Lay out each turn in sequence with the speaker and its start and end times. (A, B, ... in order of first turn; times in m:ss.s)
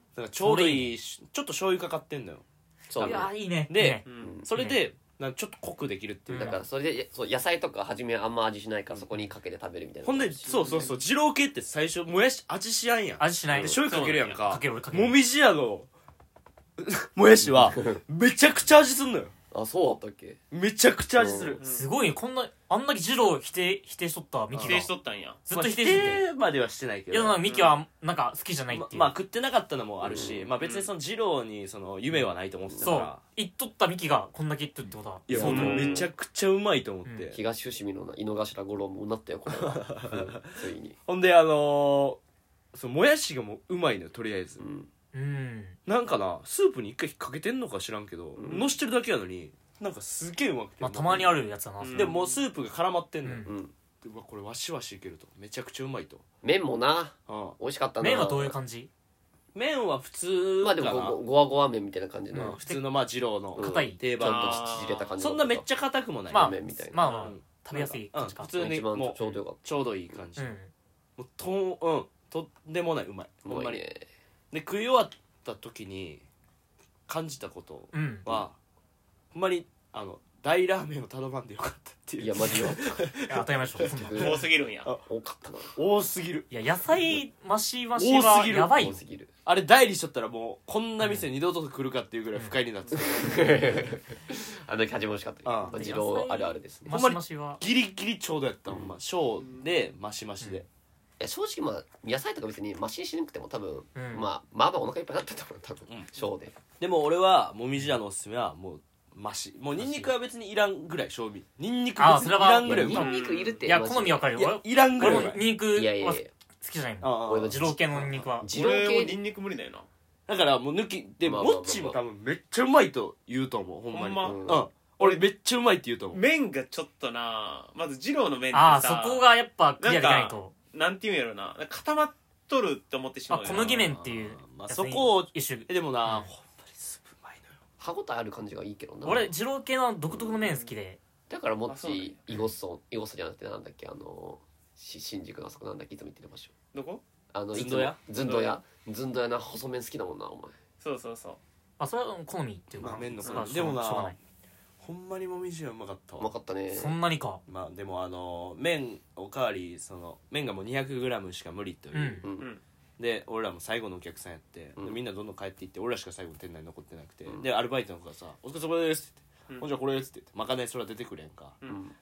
0:00.2-0:02.4 A
0:00.4-0:01.0 B
0:02.9-0:03.3 C
0:03.0-0:04.8 B
0:03.0-0:06.6 A
0:04.1-0:04.3 D
0:04.2-0:04.5 C
0:06.3-0:06.6 B
0:06.3-0:10.9 C
0:10.0-0:15.9 A
0:10.5-0:11.0 D
0:13.2-0:15.2 B
0:13.5-0:13.8 C
0:13.9-0:14.4 D
0:16.8-0:19.3 A
0:17.4-0:18.0 C
0:19.5-0:20.4 C
0:20.5-0:21.6 A
0:21.2-0:21.6 C
0:21.6-0:21.9 D
0:21.7-0:24.9 B
0:24.5-0:24.8 A
0:24.6-0:25.4 D
0:25.5-0:26.2 B
0:25.5-0:27.4 A
0:27.1-0:29.1 B
0:27.5-0:27.8 D
0:28.7-0:33.2 A
0:30.0-0:30.5 C
0:30.6-0:30.9 D
0:32.7-0:32.9 C
0:32.8-0:36.0 B
0:35.3-0:37.4 A
0:35.3-0:35.9 C
0:35.4-0:36.1 D
0:37.3-0:41.0 C
0:39.5-0:42.2 A
0:42.7-0:44.6 A
0:44.6-0:44.9 C
0:45.1-0:45.8 B
0:45.9-0:51.4 A
0:48.4-0:48.7 C
0:50.8-0:52.2 B
0:51.8-0:52.3 D
0:51.9-0:53.5 A
0:53.2-0:53.5 B
0:53.4-0:53.7 C
0:54.0-0:56.2 A
0:56.4-0:58.6 C
0:57.3-0:57.6 A
0:58.0-0:58.9 B
0:59.6-1:01.2 A
1:00.6-1:02.6 C
1:02.3-1:02.9 B
1:02.4-1:10.6 A
1:03.6-1:04.0 B
1:03.6-1:05.7 C
1:04.2-1:05.2 D
1:06.3-1:07.4 C
1:06.3-1:08.7 B
1:08.5-1:09.6 C
1:10.4-1:10.7 B
1:11.2-1:13.8 A
1:13.4-1:14.1 C
1:14.5-1:16.2 A
1:17.1-1:18.6 A
1:17.9-1:18.3 B
1:19.3-1:24.3 A
1:22.2-1:23.0 C
1:23.3-1:24.4 B
1:23.8-1:24.4 C
1:24.2-1:24.9 D
1:25.1-1:25.8 C
1:25.7-1:26.5 A
1:26.5-1:29.0 B
1:28.0-1:28.9 A
1:28.8-1:29.3 C
1:29.4-1:34.0 A
1:31.0-1:31.3 B
1:33.0-1:36.9 C
1:35.4-1:35.8 A
1:35.7-1:37.6 B
1:36.9-1:40.7 A
1:38.7-1:38.9 C
1:41.2-1:46.6 C
1:44.0-1:44.3 B
1:46.8-1:53.1 A
1:49.8-1:50.1 B
1:52.0-1:58.5 B
1:52.6-1:54.3 C
1:53.0-1:53.7 D
1:54.4-1:55.4 A
1:55.0-1:56.3 C
1:57.0-1:57.6 A
1:57.2-1:59.2 C
1:58.5-1:59.9 D
2:00.3-2:06.2 A
2:01.2-2:02.0 C
2:03.9-2:05.2 D
2:04.2-2:04.6 C
2:06.1-2:09.2 D
2:08.5-2:10.5 B
2:09.8-2:13.8 D
2:13.3-2:16.3 B
2:13.5-2:17.6 A
2:17.8-2:19.3 C
2:19.0-2:21.0 B
2:20.1-2:20.5 C
2:21.3-2:26.5 C
2:21.7-2:22.2 D
2:26.7-2:27.0 D
2:27.3-2:30.6 C
2:27.5-2:28.0 A
2:28.2-2:28.6 D
2:30.8-2:31.4 D
2:31.8-2:34.2 B
2:32.8-2:34.2 A
2:33.2-2:33.7 D
2:34.8-2:36.3 A
2:36.2-2:37.0 C
2:36.7-2:37.4 B
2:37.5-2:42.3 A
2:41.9-2:42.3 B
2:42.2-2:42.5 C
2:43.0-2:51.6 A
2:51.7-2:52.0 C